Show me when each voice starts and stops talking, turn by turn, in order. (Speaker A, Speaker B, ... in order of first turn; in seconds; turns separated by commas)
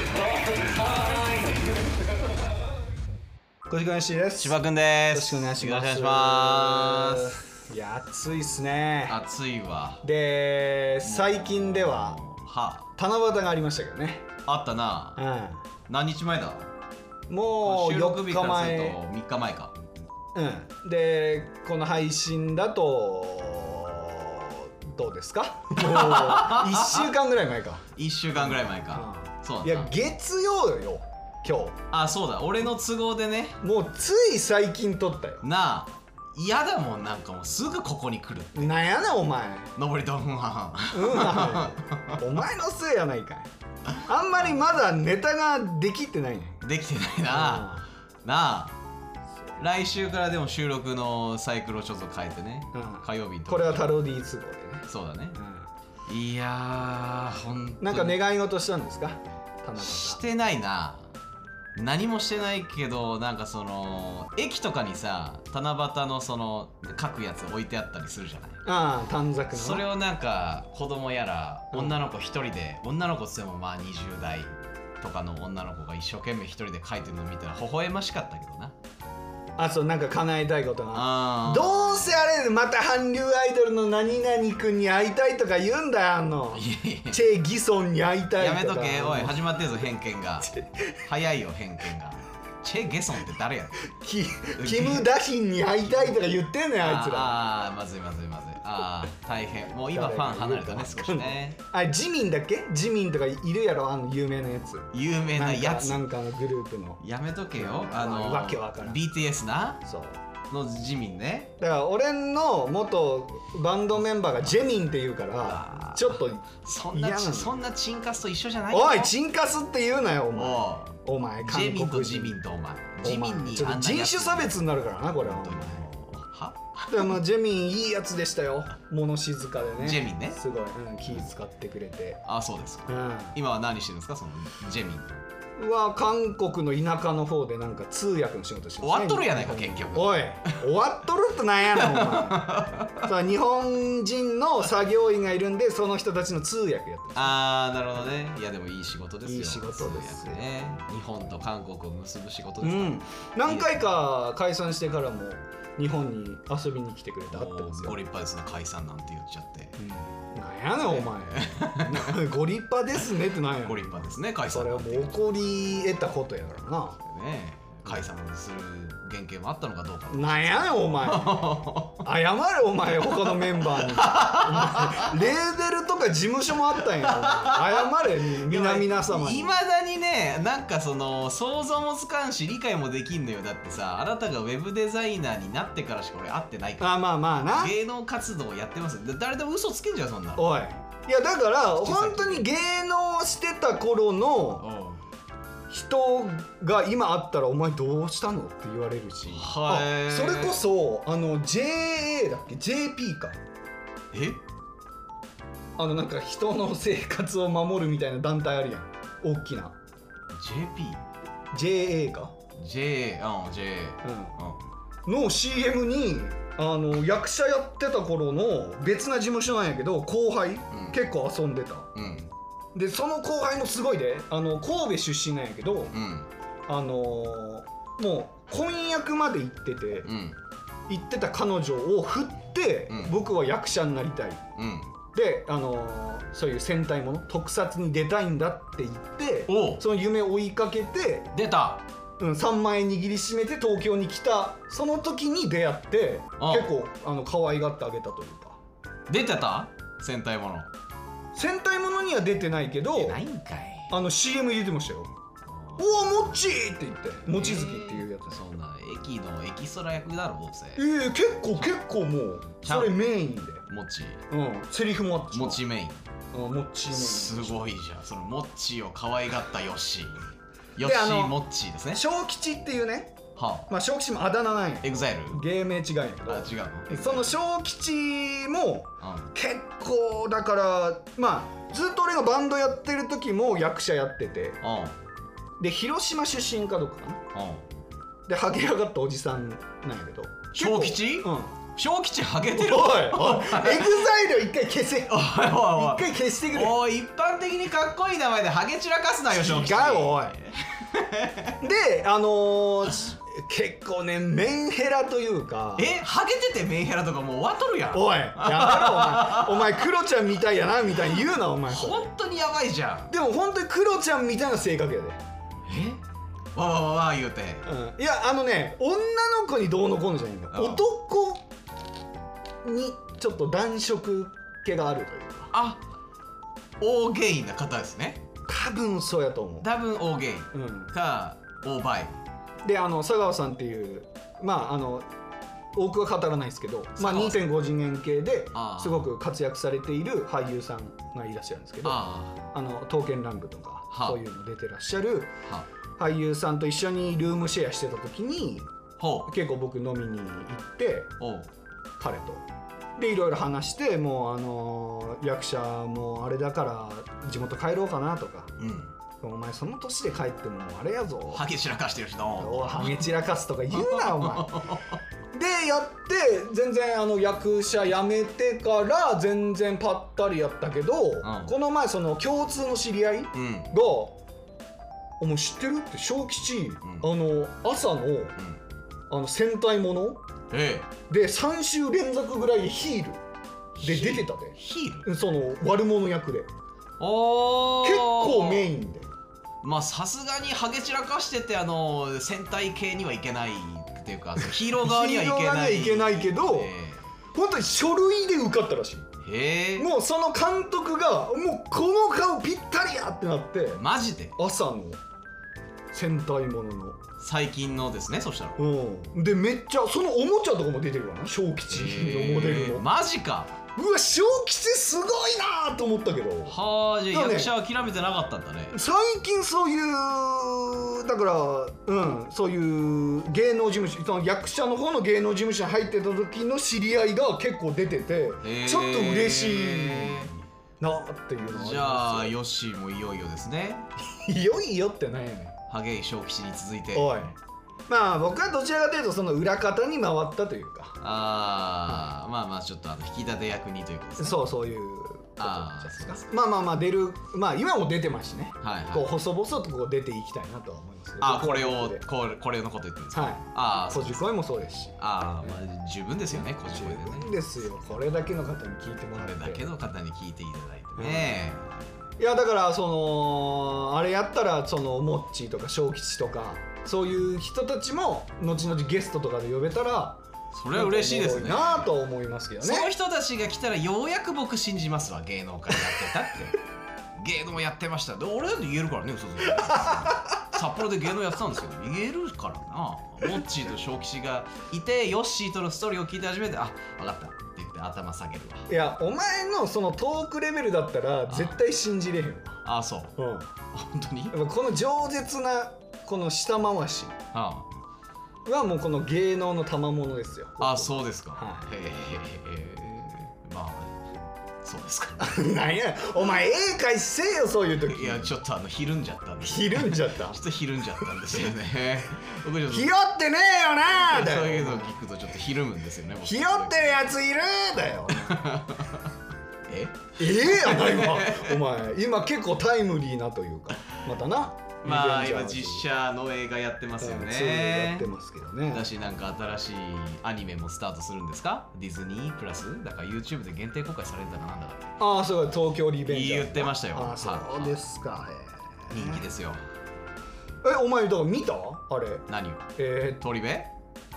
Speaker A: 3.7-4.6, Speaker B: 4.4-7.4, Speaker A: 5.1-9.2, Speaker B: 9.1-10.0, Speaker A: 10.0-12.2, Speaker B: 11.0-12.9, Speaker A: 13.0-14.3, Speaker B: 14.5-15.2, Speaker A: 15.2-15.6, Speaker B: 15.9-16.7, Speaker A: 17.3-19.0, Speaker B: 17.6-19.7, Speaker A: 20.4-27.9, Speaker B: 25.8-27.1, Speaker B: 28.0-29.9, Speaker A: 28.4-31.8, Speaker B: 31.9-33.6, Speaker A: 33.6-35.4, Speaker B: 35.4-38.7, Speaker A: 38.5-39.7, Speaker B: 39.8-42.2, Speaker A: 40.9-43.5, Speaker A: 44.0-46.6, Speaker B: 46.6-48.8, Speaker A: 47.3-47.9, Speaker B: 49.6-53.9, Speaker A: 52.7-55.7, Speaker B: 54.9-55.4, Speaker B: 56.1-58.2, Speaker A: 57.8-60.2, Speaker B: 59.8-61.1, Speaker B: 61.8-68.6, Speaker A: 68.7-69.8, Speaker B: 69.5-78.8, Speaker A: 79.6-89.4, Speaker B: 80.9-82.1, Speaker B: 86.5-87.2, Speaker B: 88.4-90.5, Speaker A: 90.4-91.0, Speaker B: 91.0-93.9, Speaker A: 93.8-97.4, Speaker B: 94.6-95.1, Speaker B: 95.9-96.2, Speaker B: 96.8-101.6, Speaker A: 99.9-107.0, Speaker B: 104.9-106.0, Speaker B: 107.0-109.8, Speaker A: 107.5-109.0, Speaker A: 109.8-110.2, Speaker B: 110.5-111.5, Speaker A: 111.6-117.5, Speaker B: 115.4-119.1, Speaker A: 118.7-122.4, Speaker B: 120.3-124.6, Speaker A: 123.0-125.9, Speaker B: 125.2-127.2, Speaker A: 126.9-132.2, Speaker B: 129.8-130.4, Speaker B: 132.3-135.2, Speaker A: 132.9-133.4, Speaker A: 135.6-147.4, Speaker B: 138.8-140.7, Speaker B: 141.7-143.1, Speaker B: 147.2-153.8, Speaker A: 149.2-150.8, Speaker A: 152.6-158.0, Speaker B: 157.3-159.8, Speaker A: 159.8-167.0, Speaker B: 160.9-162.2, Speaker B: 163.6-165.1, Speaker B: 167.1-172.1, Speaker A: 170.1-179.5, Speaker B: 173.1-175.1, Speaker B: 177.0-190.5, Speaker A: 186.8-187.8, Speaker A: 190.4-194.7, Speaker B: 191.7-192.5, Speaker B: 194.6-195.0, Speaker A: 195.7-203.4, Speaker B: 199.3-200.6, Speaker B: 204.1-204.4, Speaker A: 205.8-209.8, Speaker B: 210.4-211.0, Speaker A: 211.5-212.3, Speaker B: 212.6-214.6, Speaker A: 214.0-214.3, Speaker A: 215.1-221.9, Speaker B: 220.7-221.0, Speaker B: 221.9-222.3, Speaker A: 222.8-225.9, Speaker B: 225.9-226.3, Speaker A: 226.7-230.1, Speaker B: 230.1-230.4, Speaker A: 230.9-234.4, Speaker B: 232.9-233.1, Speaker B: 234.6-234.9, Speaker A: 235.1-241.3, Speaker B: 239.5-239.8, Speaker B: 241.3-241.8, Speaker A: 242.2-248.6, Speaker B: 246.4-246.7, Speaker B: 249.1-250.7, Speaker A: 251.3-253.2, Speaker B: 252.9-253.9, Speaker A: 253.9-255.1, Speaker B: 255.5-255.8, Speaker A: 255.8-258.4, Speaker B: 257.3-260.9, Speaker A: 260.8-263.7, Speaker B: 262.6-263.0, Speaker B: 263.7-264.2, Speaker A: 264.3-265.6, Speaker B: 265.3-266.0, Speaker A: 266.3-267.7, Speaker B: 266.9-270.2, Speaker B: 270.8-272.0, Speaker A: 270.8-271.4, Speaker A: 271.9-284.6, Speaker B: 273.4-273.7, Speaker B: 274.8-275.4, Speaker B: 276.3-277.3, Speaker B: 279.0-279.3, Speaker B: 284.6-285.0, Speaker A: 285.6-287.2, Speaker B: 287.3-287.6, Speaker A: 288.3-291.5, Speaker B: 290.5-294.1, Speaker A: 292.5-296.8, Speaker B: 295.1-301.6, Speaker A: 299.3-300.4, Speaker A: 301.6-305.9, Speaker B: 305.8-309.9, Speaker A: 307.9-312.1, Speaker B: 311.7-313.1, Speaker A: 313.1-315.2, Speaker B: 315.7-316.0, Speaker B: 316.6-317.7, Speaker A: 317.7-321.4, Speaker B: 320.5-320.9, Speaker A: 322.6-325.5, Speaker B: 325.5-325.8, Speaker B: 326.8-328.2, Speaker A: 328.5-329.7, Speaker B: 329.6-332.1, Speaker A: 330.5-330.9, Speaker A: 332.6-335.1, Speaker A: 335.8-345.3, Speaker B: 337.0-337.4, Speaker B: 338.6-339.1, Speaker B: 341.8-342.4, Speaker B: 343.9-344.2, Speaker A: 346.0-348.7, Speaker B: 349.0-349.3, Speaker A: 349.3-351.1, Speaker B: 351.2-351.5, Speaker A: 352.0-352.4, Speaker A: 353.0-358.5, Speaker B: 358.6-358.9, Speaker A: 359.2-361.5, Speaker B: 361.3-363.1, Speaker A: 362.4-364.6, Speaker B: 363.7-365.0, Speaker A: 365.3-374.2, Speaker B: 371.2-371.5, Speaker B: 373.4-373.7, Speaker A: 375.2-378.4, Speaker A: 379.1-380.2, Speaker B: 380.5-380.9, Speaker A: 381.1-383.2, Speaker B: 383.8-385.1, Speaker A: 383.8-386.5, Speaker B: 387.0-388.7, Speaker A: 387.8-389.1, Speaker B: 389.6-397.1, Speaker A: 394.8-396.7, Speaker A: 397.3-399.1, Speaker B: 399.2-399.9, Speaker A: 399.8-403.8, Speaker B: 403.8-404.4, Speaker A: 404.4-405.0, Speaker A: 405.9-407.0, Speaker B: 407.2-408.6, Speaker A: 408.6-412.9, Speaker B: 411.7-413.6, Speaker A: 413.8-416.6, Speaker B: 416.5-418.8, Speaker A: 417.1-417.5, Speaker A: 418.7-432.3, Speaker B: 428.4-430.3, Speaker B: 431.5-433.9, Speaker A: 434.1-435.6, Speaker B: 435.7-437.3, Speaker A: 436.9-437.4, Speaker A: 437.9-441.0, Speaker B: 441.0-444.4, Speaker A: 444.2-452.1, Speaker B: 445.4-446.2, Speaker B: 448.6-449.1, Speaker B: 451.2-454.4, Speaker A: 453.1-455.0, Speaker B: 455.0-457.4, Speaker A: 456.3-459.7, Speaker B: 459.2-461.7, Speaker A: 461.0-461.4, Speaker A: 462.2-470.2, Speaker B: 470.5-471.9, Speaker A: 470.7-472.9, Speaker B: 472.6-476.6, Speaker B: 477.2-488.7, Speaker A: 479.4-480.4, Speaker A: 488.7-492.6, Speaker B: 491.3-491.6, Speaker B: 492.6-493.1, Speaker A: 493.2-493.5, Speaker B: 493.7-494.4, Speaker A: 494.3-497.2, Speaker B: 497.3-497.7, Speaker A: 498.4-501.7, Speaker B: 500.6-504.1, Speaker B: 504.6-505.4, Speaker A: 505.2-508.4, Speaker B: 507.9-512.9, Speaker A: 509.4-510.4, Speaker A: 511.0-511.4, Speaker A: 512.7-515.0, Speaker B: 514.0-517.0, Speaker A: 516.2-518.6, Speaker B: 518.1-519.1, Speaker B: 519.7-521.6, Speaker A: 520.2-525.9, Speaker B: 524.8-528.1, Speaker A: 527.0-528.9, Speaker B: 528.7-535.0, Speaker A: 535.0-539.2, Speaker B: 536.1-537.8, Speaker B: 538.9-539.6, Speaker A: 540.6-542.2, Speaker B: 542.3-543.7, Speaker A: 542.8-543.2